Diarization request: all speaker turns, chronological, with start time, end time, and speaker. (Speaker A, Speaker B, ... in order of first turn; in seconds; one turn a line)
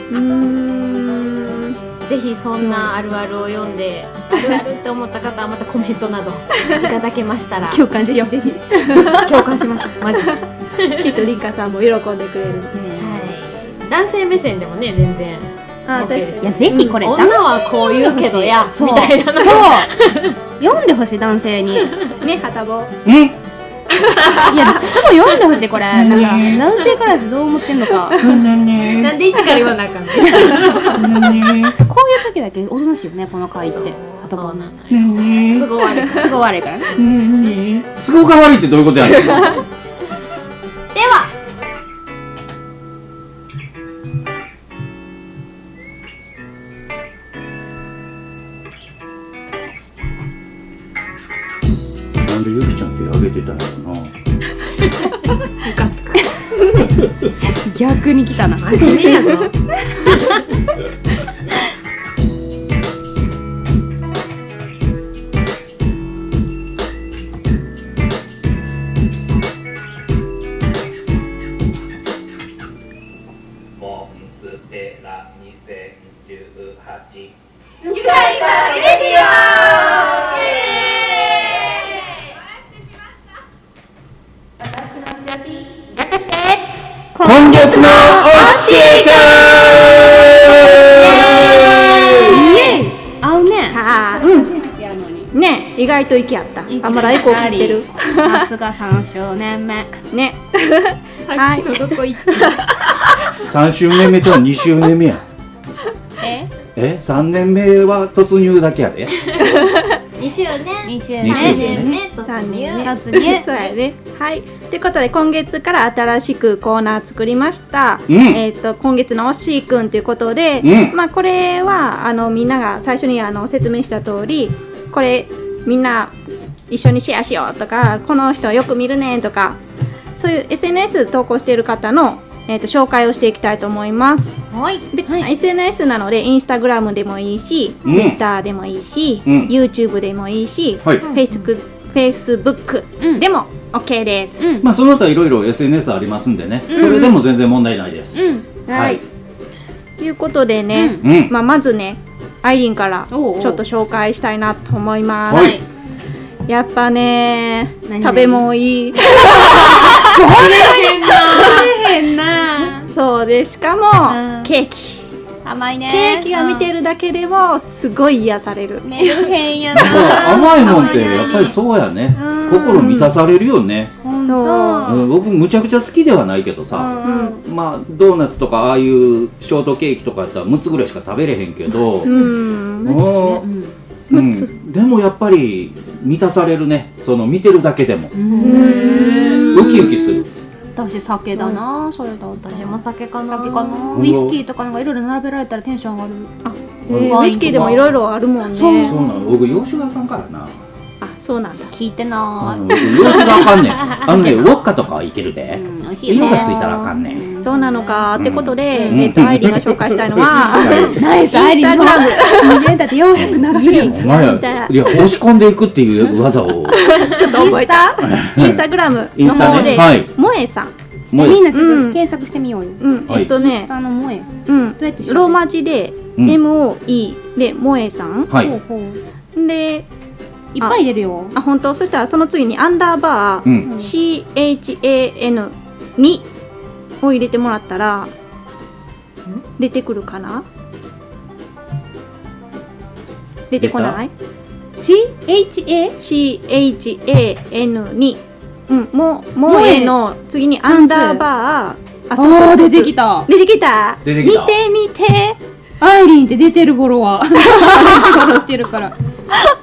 Speaker A: 0.1-1.8
Speaker B: 2.0-7.9
Speaker A: 2.6-2.9
Speaker A: 4.3-4.6
Speaker C: 7.7-9.9
Speaker A: 8.1-9.2
Speaker B: 9.1-11.3
Speaker A: 11.0-12.7
Speaker C: 12.7-13.2
Speaker B: 13.0-20.4
Speaker A: 15.9-17.0
Speaker C: 16.0-19.9
Speaker C: 20.6-21.9
Speaker B: 21.9-22.2
Speaker A: 22.2-22.9
Speaker D: 23.0-23.4
Speaker B: 23.9-24.9
Speaker C: 24.4-28.2
Speaker D: 25.9-26.7
Speaker B: 26.4-26.9
Speaker D: 28.2-29.2
Speaker B: 28.8-31.1
Speaker C: 30.2-30.9
Speaker D: 30.8-31.8
Speaker C: 31.7-34.7
Speaker B: 33.6-36.4
Speaker D: 34.9-35.7
Speaker C: 36.1-36.9
Speaker D: 36.9-39.6
Speaker B: 40.9-41.3
Speaker D: 52.2-54.1
Speaker B: 54.8-56.2
Speaker C: 57.4-59.3
Speaker B: 58.6-59.5
Speaker A: 58.8-59.5
Speaker E: 73.7-77.3
Speaker A: 77.9-80.2
Speaker A: 84.6-85.9
Speaker C: 86.0-86.6
Speaker C: 87.1-88.4
Speaker D: 87.2-89.9
Speaker B: 87.6-89.8
Speaker B: 91.0-92.8
Speaker C: 92.2-95.3
Speaker A: 93.7-94.5
Speaker A: 95.3-98.5
Speaker C: 96.7-99.9
Speaker A: 100.1-102.6
Speaker B: 101.2-102.7
Speaker D: 103.4-105.2
Speaker C: 106.2-106.5
Speaker D: 106.7-109.2
Speaker B: 110.2-112.9
Speaker C: 110.8-112.0
Speaker D: 111.2-111.9
Speaker A: 112.2-126.1
Speaker C: 112.8-113.5
Speaker D: 118.1-118.4
Speaker D: 120.6-120.9
Speaker A: 126.7-129.6
Speaker A: 130.1-134.4
Speaker B: 134.5-134.8
Speaker A: 134.9-144.4
Speaker D: 137.8-138.2
Speaker D: 139.2-139.5
Speaker B: 141.0-141.5
Speaker C: 143.0-143.2
Speaker C: 144.4-144.7
Speaker D: 144.6-149.0
Speaker C: 146.7-147.2
Speaker A: 146.7-147.2
Speaker C: 148.1-148.4
Speaker A: 148.7-149.0
Speaker A: 150.0-155.6
Speaker C: 150.7-151.0
Speaker D: 151.0-151.3
Speaker C: 153.1-153.6
Speaker D: 155.3-155.6
Speaker C: 155.3-155.6
Speaker A: 156.5-160.5
Speaker C: 157.8-158.5
Speaker B: 159.1-161.7
Speaker C: 159.2-162.9
Speaker A: 161.2-161.6
Speaker A: 162.9-165.1
Speaker C: 164.1-164.5
Speaker C: 165.4-166.7
Speaker A: 165.9-169.3
Speaker C: 168.8-171.6
Speaker D: 169.7-173.9
Speaker C: 172.1-173.1
Speaker C: 174.0-175.1
Speaker A: 174.3-174.9
Speaker D: 174.8-182.1
Speaker C: 176.7-177.4
Speaker A: 177.0-177.3
Speaker C: 182.0-182.3
Speaker A: 182.0-183.1
Speaker D: 182.8-183.4
Speaker C: 182.9-183.7
Speaker D: 184.1-188.1
Speaker A: 184.1-184.5
Speaker C: 188.1-190.2
Speaker B: 188.3-189.2
Speaker A: 188.4-189.9
Speaker D: 189.4-190.3
Speaker C: 190.7-196.3
Speaker A: 191.3-191.6
Speaker B: 192.4-194.1
Speaker D: 193.9-194.4
Speaker A: 196.4-198.9
Speaker D: 196.9-197.9
Speaker C: 196.9-197.9
Speaker C: 198.5-199.3
Speaker D: 198.7-200.6
Speaker A: 201.0-201.7
Speaker C: 201.7-204.6
Speaker D: 202.4-207.2
Speaker C: 205.5-208.1
Speaker A: 206.1-212.8
Speaker D: 208.2-211.0
Speaker C: 208.7-209.1
Speaker C: 210.3-214.3
Speaker D: 213.1-216.9
Speaker A: 213.5-215.1
Speaker A: 216.7-220.7
Speaker C: 217.1-218.0
Speaker D: 218.0-220.1
Speaker C: 219.2-219.9
Speaker D: 221.1-221.4
Speaker C: 221.1-225.4
Speaker A: 221.3-222.0
Speaker A: 222.8-223.7
Speaker A: 224.5-228.3
Speaker D: 228.3-228.6
Speaker C: 228.4-229.0
Speaker A: 229.3-229.9
Speaker C: 230.5-231.3
Speaker A: 231.3-236.3
Speaker D: 233.4-233.7
Speaker C: 233.7-233.9
Speaker A: 237.0-238.1
Speaker A: 239.6-240.4
Speaker A: 243.5-244.1
Speaker D: 243.6-244.0
Speaker C: 244.8-245.9
Speaker A: 246.0-255.4
Speaker C: 249.4-250.0
Speaker C: 250.6-251.2
Speaker C: 252.2-253.3
Speaker D: 254.0-254.5
Speaker C: 255.8-258.9
Speaker A: 257.8-258.1